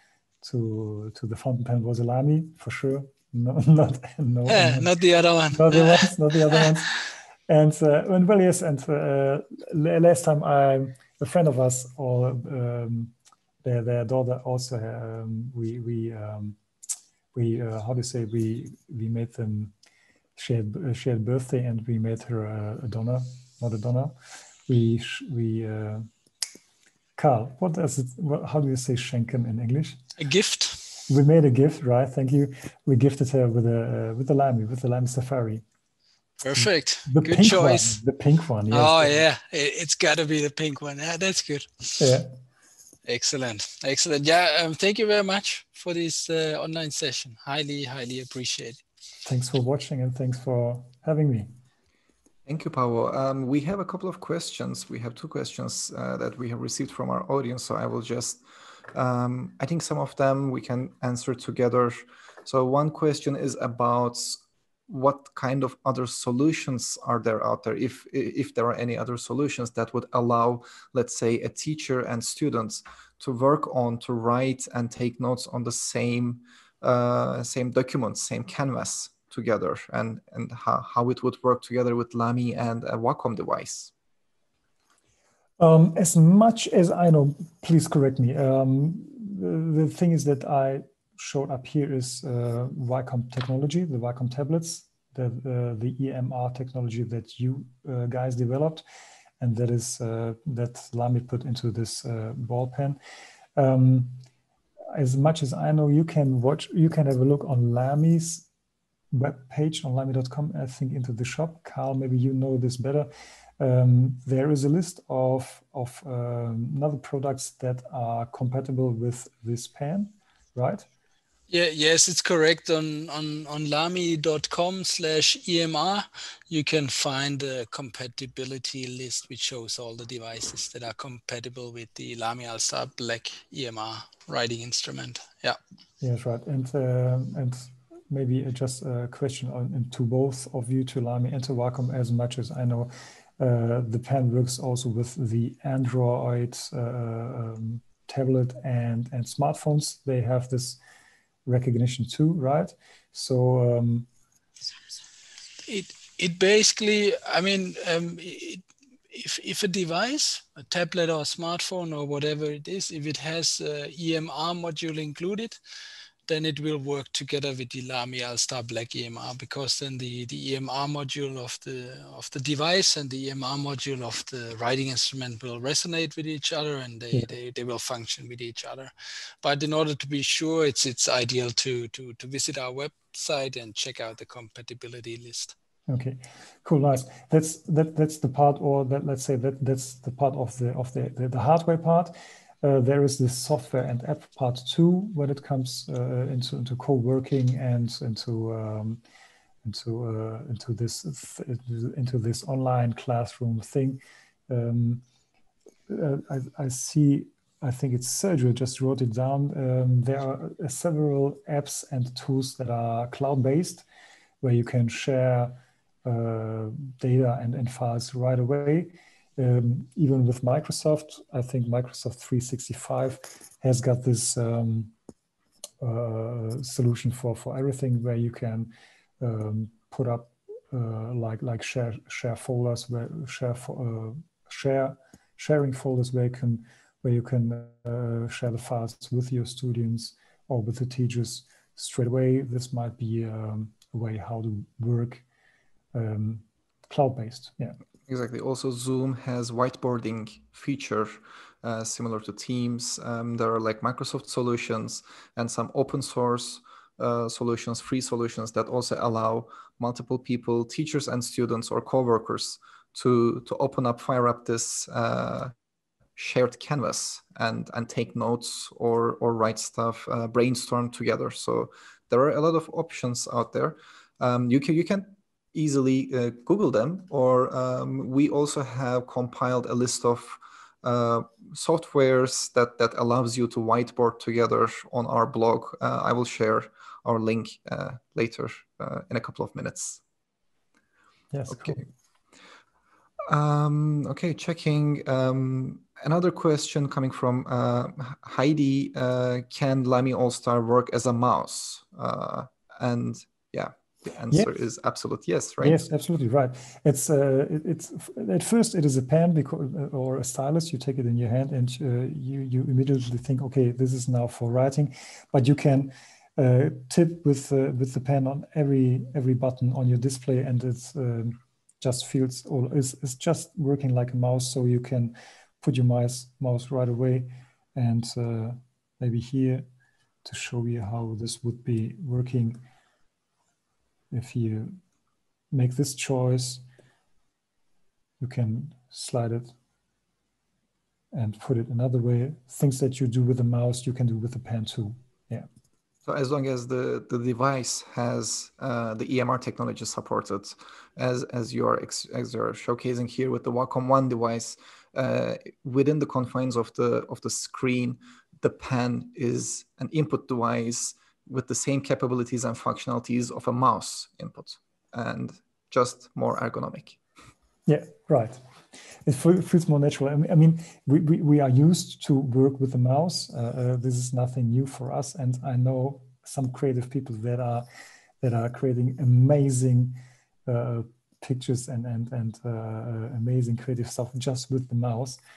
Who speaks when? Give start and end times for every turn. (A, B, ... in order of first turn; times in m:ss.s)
0:00.4-0:04.9 A
0:04.5-0:06.7 B
0:05.5-0:16.6 A
0:17.3-0:19.7 A
0:20.4-0:26.1 A
0:27.2-0:30.0 A
0:30.2-0:31.0 B
0:31.1-0:35.6 A
0:36.4-0:38.0 B
0:36.6-0:39.2 A
0:38.7-0:42.1 B
0:42.0-0:42.3 A
0:43.1-0:48.8 B
0:49.2-0:51.5 A
0:52.5-0:58.4 C
0:58.9-1:23.9 C
1:25.6-1:38.8 A
1:39.4-1:43.0 A
1:43.6-1:44.2 A
1:44.9-1:48.5 A
1:49.1-2:00.9 A
2:01.5-2:15.6 B
2:16.0-2:30.8 A
2:31.5-2:34.1 A
2:35.7-2:45.6 B
2:46.3-2:58.9 B
2:59.4-3:05.6 B
3:05.9-3:19.0 A
3:19.6-3:25.0 A
3:25.9-3:33.9 A
3:34.4-3:44.9 A
3:45.8-4:05.2 A
4:05.9-4:07.8 A
4:08.1-4:25.5 C
4:26.2-4:50.0 C
4:51.3-4:51.8 A
4:51.5-4:51.8 C
4:53.3-5:05.8 C
5:05.6-5:29.7 A
5:30.2-5:32.6 A
5:34.1-5:34.8 A
5:35.5-5:36.6 A
5:38.2-5:39.5 A
5:41.1-5:45.5 A
5:46.0-6:07.0 C
6:07.7-6:17.7 A
6:18.2-6:25.2 A